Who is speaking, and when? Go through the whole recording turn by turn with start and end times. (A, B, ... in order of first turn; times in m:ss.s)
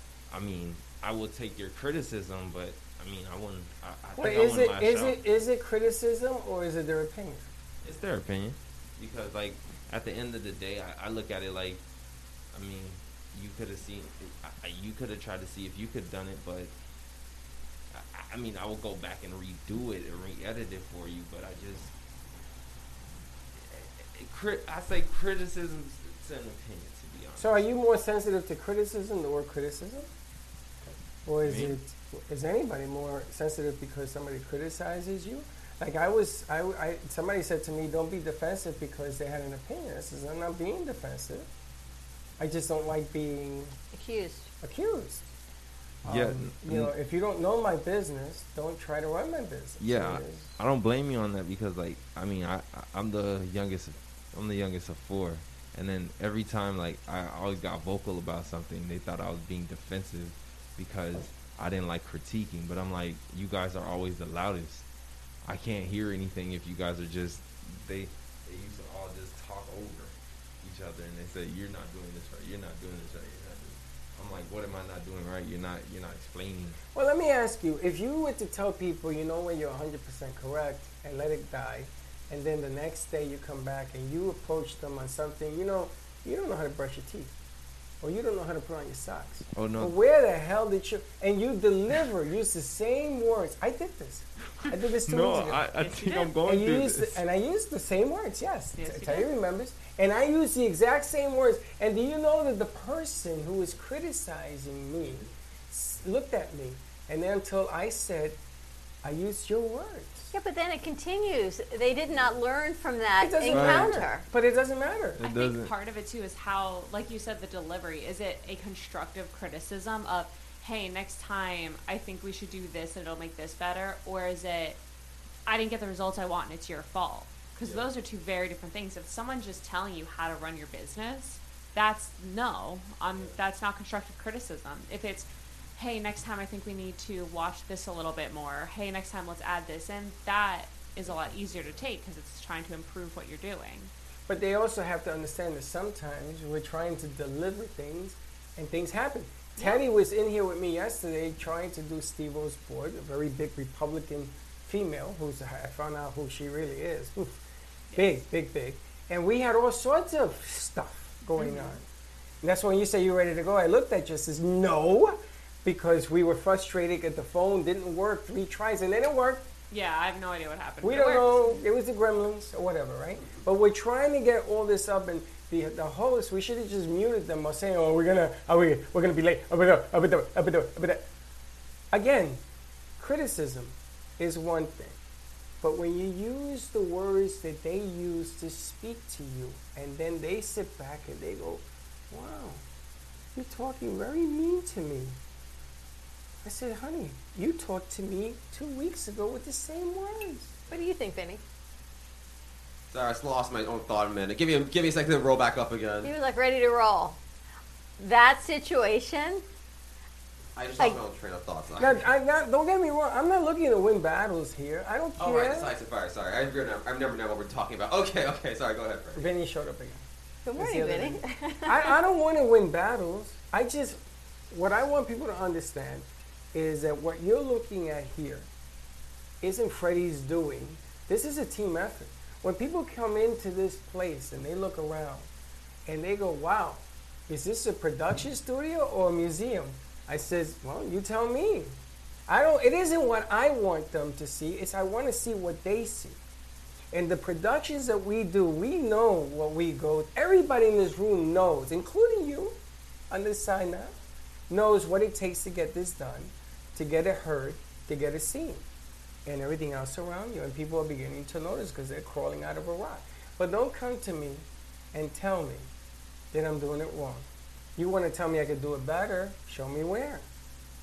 0:00.3-0:05.2 A
0:04.2-0:07.5 B
0:07.8-0:11.8 A
0:12.5-0:16.7 A
0:17.9-0:21.9 A
0:23.6-0:27.6 A
0:27.4-0:30.1 B
0:31.2-0:41.5 B
0:31.4-0:31.8 A
0:42.4-0:43.7 B
0:43.9-0:44.5 C
0:44.6-0:45.2 B
0:46.0-0:50.5 B
0:46.0-0:46.9 A
0:49.8-1:04.8 A
1:05.4-1:16.8 A
1:16.9-1:27.3 B
1:28.0-1:48.4 B
1:29.5-1:29.9 A
1:35.0-1:37.2 A
1:38.8-1:39.3 D
1:49.0-1:50.3 B
1:50.3-1:54.2 C
1:53.2-1:55.2 B
1:53.5-1:54.0 A
1:55.2-1:55.7 A
1:55.2-2:04.8 D
2:05.5-2:23.9 D
2:24.3-2:37.4 B
2:38.0-2:41.8 B
2:41.4-2:41.8 D
2:42.4-2:49.5 B
2:49.7-2:51.6 D
2:50.8-3:01.0 B
3:01.9-3:02.4 B
3:03.0-3:05.0 B
3:05.6-3:12.6 B
3:13.3-3:15.2 B
3:16.4-3:20.6 B
3:20.7-3:21.4 C
3:22.9-3:26.1 E
3:26.0-3:27.2 C
3:28.0-3:29.4 C
3:30.6-3:32.0 E
3:31.8-3:35.7 B
3:35.2-3:39.2 E
3:39.1-3:40.0 B
3:40.4-3:42.0 C
3:40.6-3:44.0 B
3:44.5-3:48.5 B
3:49.4-3:55.3 B
3:55.8-4:06.2 B
4:06.9-4:12.6 B
4:13.1-4:14.0 B
4:14.5-4:18.6 B
4:19.2-4:25.7 B
4:26.3-4:30.3 B